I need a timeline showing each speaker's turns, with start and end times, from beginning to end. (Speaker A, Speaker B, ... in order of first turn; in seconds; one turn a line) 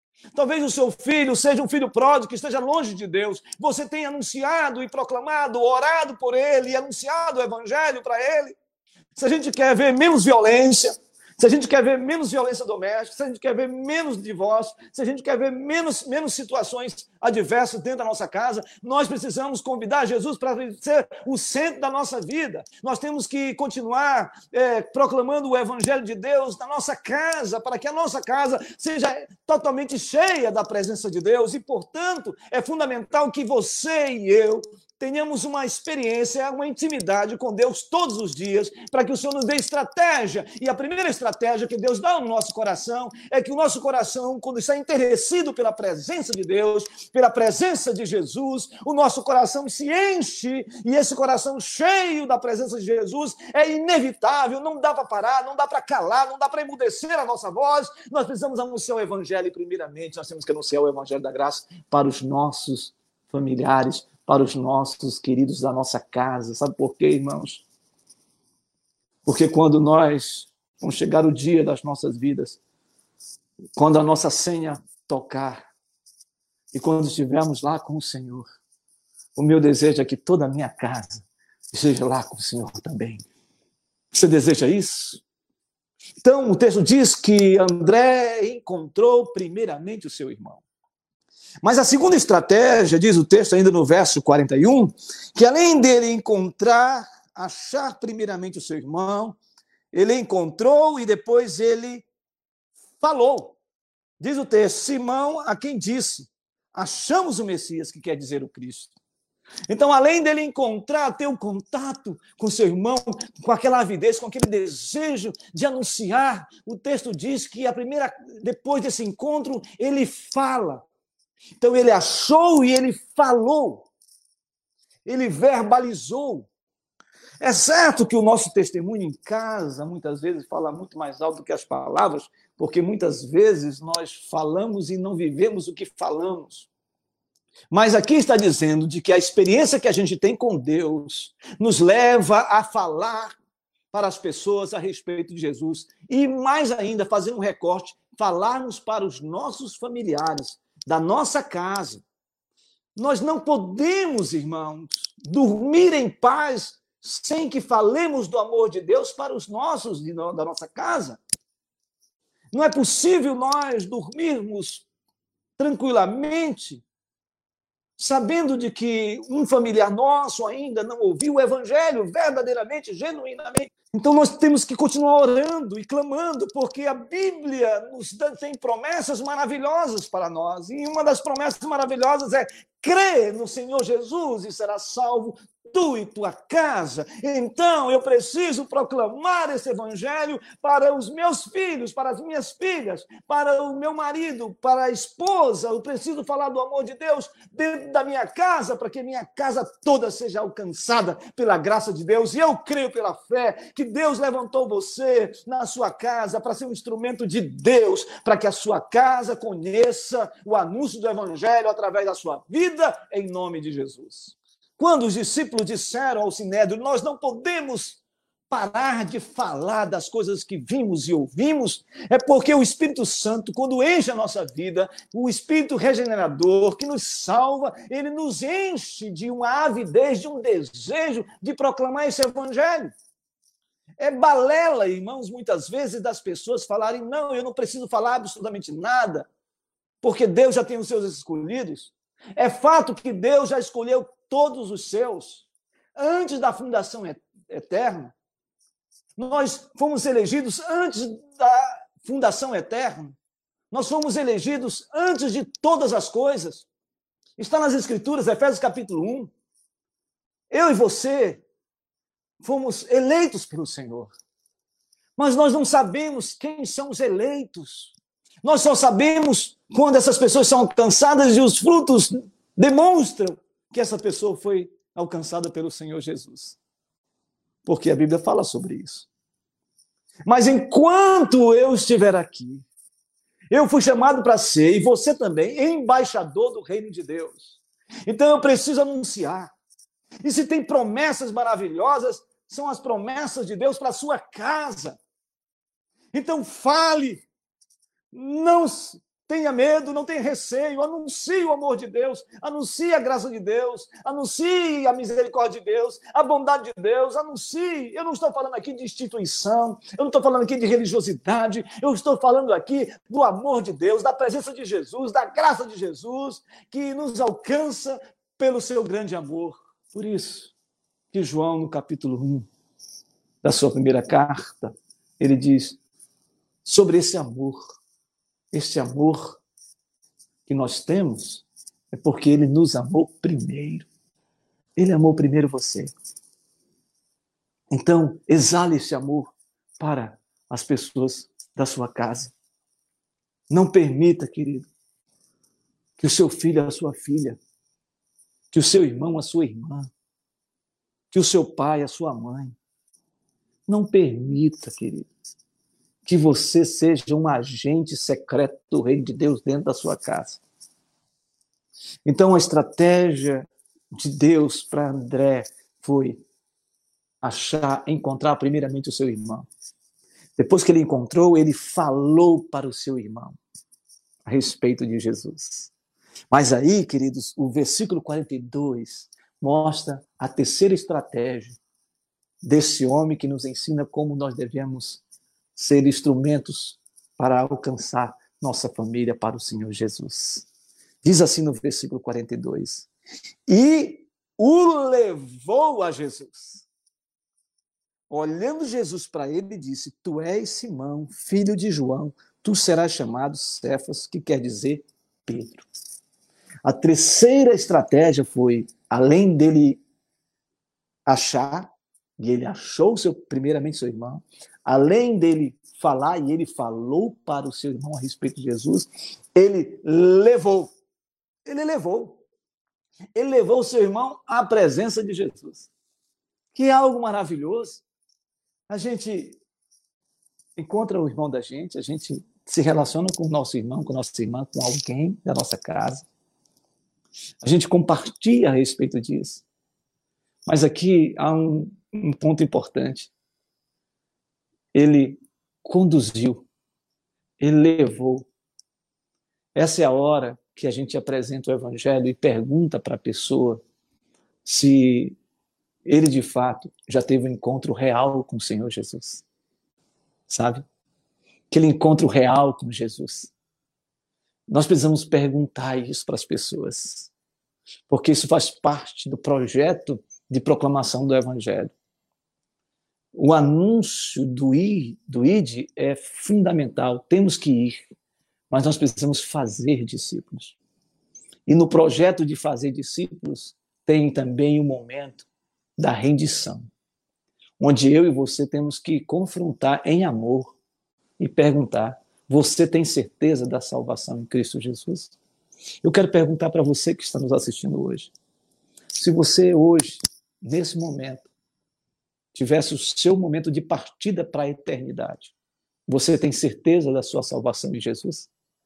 Speaker A: 0.3-8.6
Speaker A: 9.2-67.6
Speaker A: 69.2-72.6
Speaker A: 73.8-75.7
Speaker A: 76.7-78.5
Speaker A: 79.3-83.2
Speaker A: 84.1-85.2
Speaker A: 86.2-90.6
Speaker A: 91.6-99.4
Speaker A: 99.9-102.0
Speaker A: 103.0-103.6
Speaker A: 104.2-108.9
Speaker A: 109.7-120.8
Speaker A: 121.6-123.9
Speaker A: 125.0-126.5
Speaker A: 127.4-136.7
Speaker A: 137.7-143.4
Speaker A: 143.9-152.0
Speaker A: 152.9-161.2
Speaker A: 162.5-164.8
Speaker A: 165.6-166.8
Speaker A: 168.0-232.9
Speaker A: 234.0-239.3
Speaker A: 240.0-248.1
Speaker A: 249.2-253.2
Speaker A: 253.7-256.7
Speaker A: 257.4-259.3
Speaker A: 260.5-261.4
Speaker A: 262.4-264.1
Speaker A: 265.2-276.6
Speaker A: 277.6-279.1
Speaker A: 280.2-282.6
Speaker A: 283.5-289.5
Speaker A: 290.2-295.0
Speaker A: 296.1-297.2
Speaker A: 298.1-320.5
Speaker A: 321.1-322.5
Speaker A: 323.4-325.8
Speaker A: 326.6-327.8
Speaker A: 328.5-329.4
Speaker A: 330.4-333.9
Speaker A: 334.8-335.9
Speaker A: 337.7-342.3
Speaker A: 343.5-344.7
Speaker A: 346.0-347.4
Speaker A: 348.5-349.9
Speaker A: 351.1-352.6
Speaker A: 353.7-355.1
Speaker A: 356.0-360.4
Speaker A: 362.1-366.2
Speaker A: 367.2-369.4
Speaker A: 370.4-373.4
Speaker A: 374.2-375.7
Speaker A: 376.3-381.6
Speaker A: 382.4-385.0
Speaker A: 385.6-390.4
Speaker A: 391.0-392.9
Speaker A: 393.5-396.6
Speaker A: 398.1-405.6
Speaker A: 406.6-409.8
Speaker A: 411.1-420.7
Speaker A: 421.4-422.2
Speaker A: 423.1-425.7
Speaker A: 426.5-427.8
Speaker A: 428.7-429.4
Speaker A: 430.6-436.1
Speaker A: 437.4-439.4
Speaker A: 440.4-443.1
Speaker A: 444.7-446.5
Speaker A: 447.4-448.3
Speaker A: 449.5-453.6
Speaker A: 454.4-455.1
Speaker A: 455.9-459.2
Speaker A: 460.3-460.6
Speaker A: 461.5-463.3
Speaker A: 464.5-467.1
Speaker A: 467.9-471.7
Speaker A: 473.1-477.9
Speaker A: 478.5-480.6
Speaker A: 481.5-486.7
Speaker A: 487.6-490.6
Speaker A: 491.2-495.1
Speaker A: 495.8-498.1
Speaker A: 498.9-501.3
Speaker A: 502.3-505.3
Speaker A: 505.9-508.3